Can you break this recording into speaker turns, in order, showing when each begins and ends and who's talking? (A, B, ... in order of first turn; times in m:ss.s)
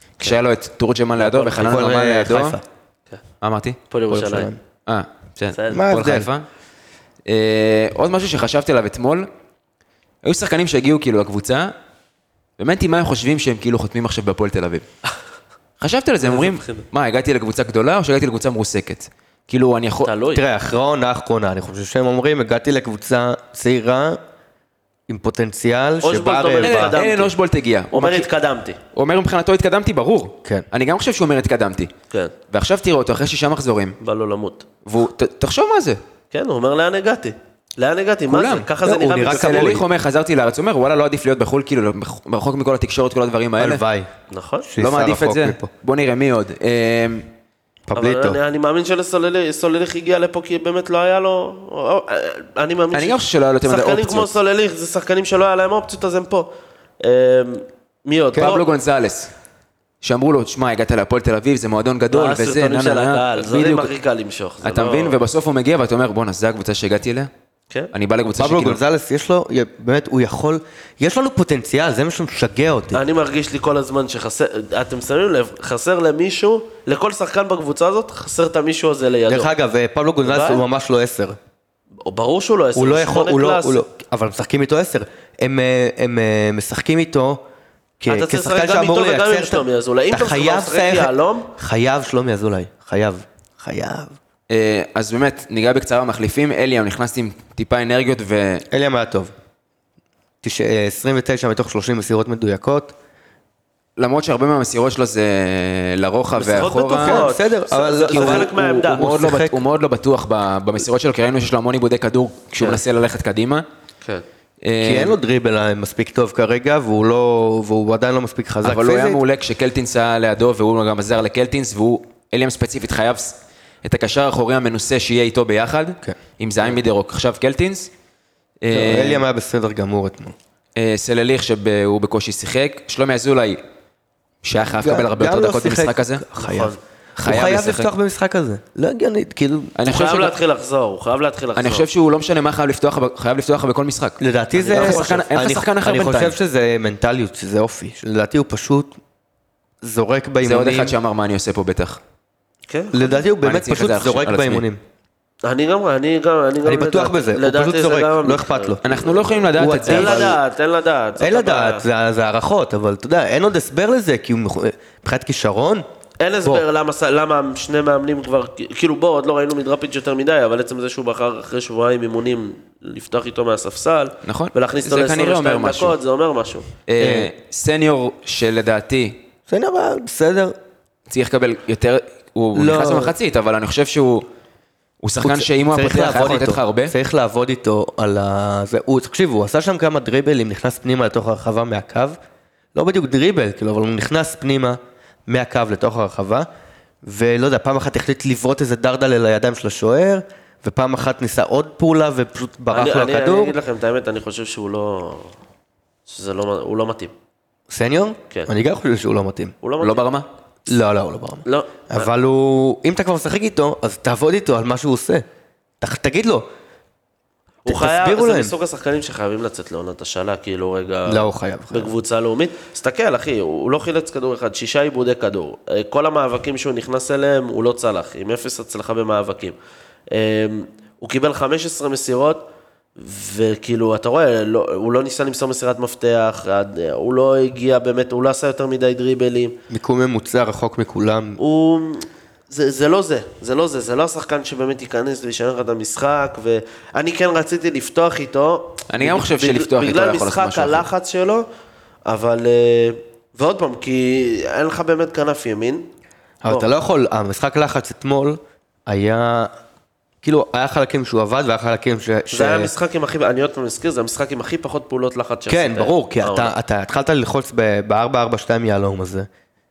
0:00.2-0:02.6 A
0:01.2-0:01.8 B
0:01.6-0:02.6 C
0:03.4-0:03.8 A
0:03.9-0:04.5 B
0:04.1-0:04.6 C
0:04.9-0:06.5 A
0:05.6-0:05.8 B
0:05.7-0:06.3 C
0:07.3-0:09.3 A
0:10.2-0:11.8 A
0:12.6-0:14.9 A
0:15.8-0:20.1 A
0:16.2-0:16.8 B
0:20.1-0:20.4 B
0:20.3-0:24.2 C
0:25.1-0:27.0 C
0:26.0-0:27.3 B
0:26.6-0:28.3 A
0:27.9-0:28.8 B
0:28.9-0:31.9 A
0:32.5-0:34.0 A
0:34.0-0:34.6 B
0:34.8-0:36.0 A
0:36.3-0:39.8 B
0:38.3-0:38.7 A
0:38.8-0:39.8 C
0:39.2-0:43.8 A
0:43.6-0:44.1 C
0:44.3-0:44.7 B
0:44.6-0:45.7 C
0:44.8-0:47.3 A
0:47.9-0:48.4 C
0:48.0-0:58.7 B
0:52.9-0:54.3 A
0:58.4-0:59.3 A
1:00.0-1:03.9 A
1:02.1-1:05.2 B
1:04.6-1:07.3 A
1:07.9-1:08.8 A
1:08.4-1:13.0 C
1:12.9-1:19.5 B
1:19.3-1:21.4 C
1:20.2-1:20.6 B
1:22.0-1:23.8 B
1:22.8-1:27.4 C
1:28.0-1:34.2 C
1:28.1-1:31.5 B
1:34.5-1:38.6 A
1:38.7-1:39.3 C
1:40.4-1:43.0 C
1:44.0-1:47.3 A
1:46.4-1:49.0 B
1:47.0-1:49.6 C
1:48.1-1:53.7 A
1:54.6-1:55.2 A
1:54.8-1:59.2 C
1:58.6-2:07.9 A
2:08.6-2:09.2 A
2:08.7-2:10.3 C
2:10.8-2:13.6 A
2:14.4-2:16.2 A
2:14.7-2:19.8 C
2:16.4-2:16.8 B
2:17.2-2:17.9 A
2:19.8-2:20.4 A
2:19.8-2:21.9 B
2:21.6-2:26.3 A
2:24.2-2:29.0 C
2:24.6-2:25.2 B
2:29.8-2:31.0 C
2:30.4-2:32.0 A
2:32.7-2:33.2 B
2:32.9-2:34.8 C
2:33.4-2:34.6 A
2:35.4-2:41.8 B
2:36.6-2:38.8 C
2:38.8-2:40.4 A
2:39.6-2:40.4 C
2:41.2-2:45.8 C
2:46.2-2:56.7 B
2:54.2-2:56.0 A
2:56.9-2:59.2 A
2:57.0-2:57.3 C
2:59.5-3:00.6 C
3:01.1-3:04.3 A
3:02.6-3:03.2 C
3:05.0-3:06.9 A
3:05.2-3:12.2 C
3:12.8-3:16.5 C
3:17.0-3:23.6 C
3:22.7-3:25.4 B
3:26.1-3:27.1 B
3:27.7-3:29.5 C
3:29.6-3:30.1 B
3:29.8-3:30.3 A
3:30.7-3:35.2 C
3:31.5-3:32.1 B
3:35.8-3:36.5 C
3:37.6-3:49.6 B
3:37.7-3:38.5 C
3:41.1-3:41.9 C
3:50.1-3:59.6 B
3:59.7-4:01.4 C
4:01.4-4:11.5 B
4:08.9-4:10.9 A
4:12.1-4:15.9 B
4:16.4-4:19.5 C
4:20.2-4:22.7 C
4:22.3-4:26.5 B
4:25.5-4:29.3 C